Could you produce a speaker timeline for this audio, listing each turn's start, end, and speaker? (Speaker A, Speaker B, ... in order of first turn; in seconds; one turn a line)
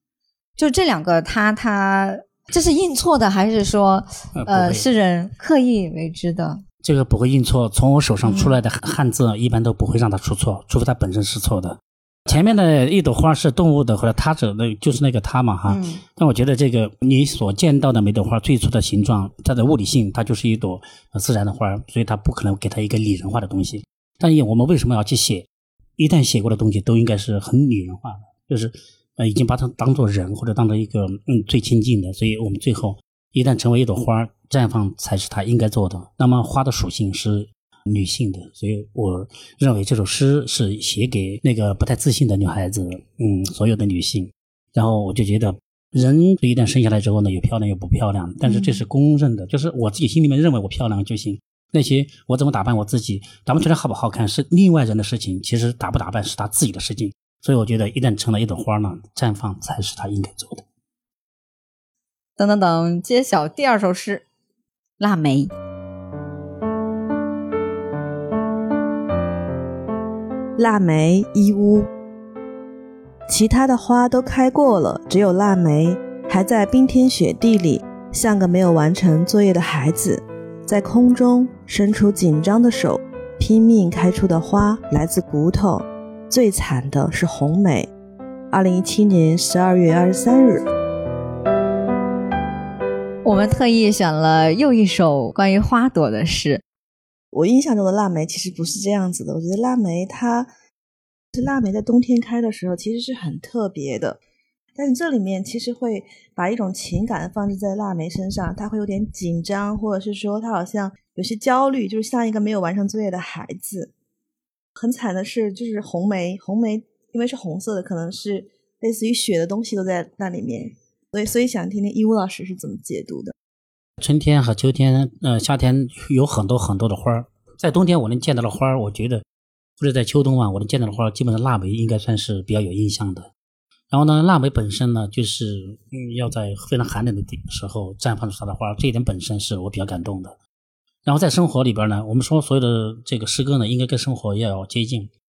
Speaker A: 0.6-6.6
Speaker B: 4.3-4.9
Speaker B: 6.8-60.6
Speaker A: 8.2-8.6
Speaker A: 15.7-16.0
Speaker A: 48.4-48.8
Speaker A: 62.4-64.2
Speaker A: 65.0-65.5
Speaker C: 70.6-71.9
Speaker C: 73.3-87.9
Speaker C: 88.5-90.6
Speaker A: 93.2-96.6
Speaker C: 97.3-100.5
Speaker C: 101.3-104.2
Speaker C: 104.8-113.9
Speaker C: 114.8-123.3
Speaker B: 124.0-129.2
Speaker B: 129.8-133.3
Speaker B: 133.9-140.4
Speaker B: 141.1-145.1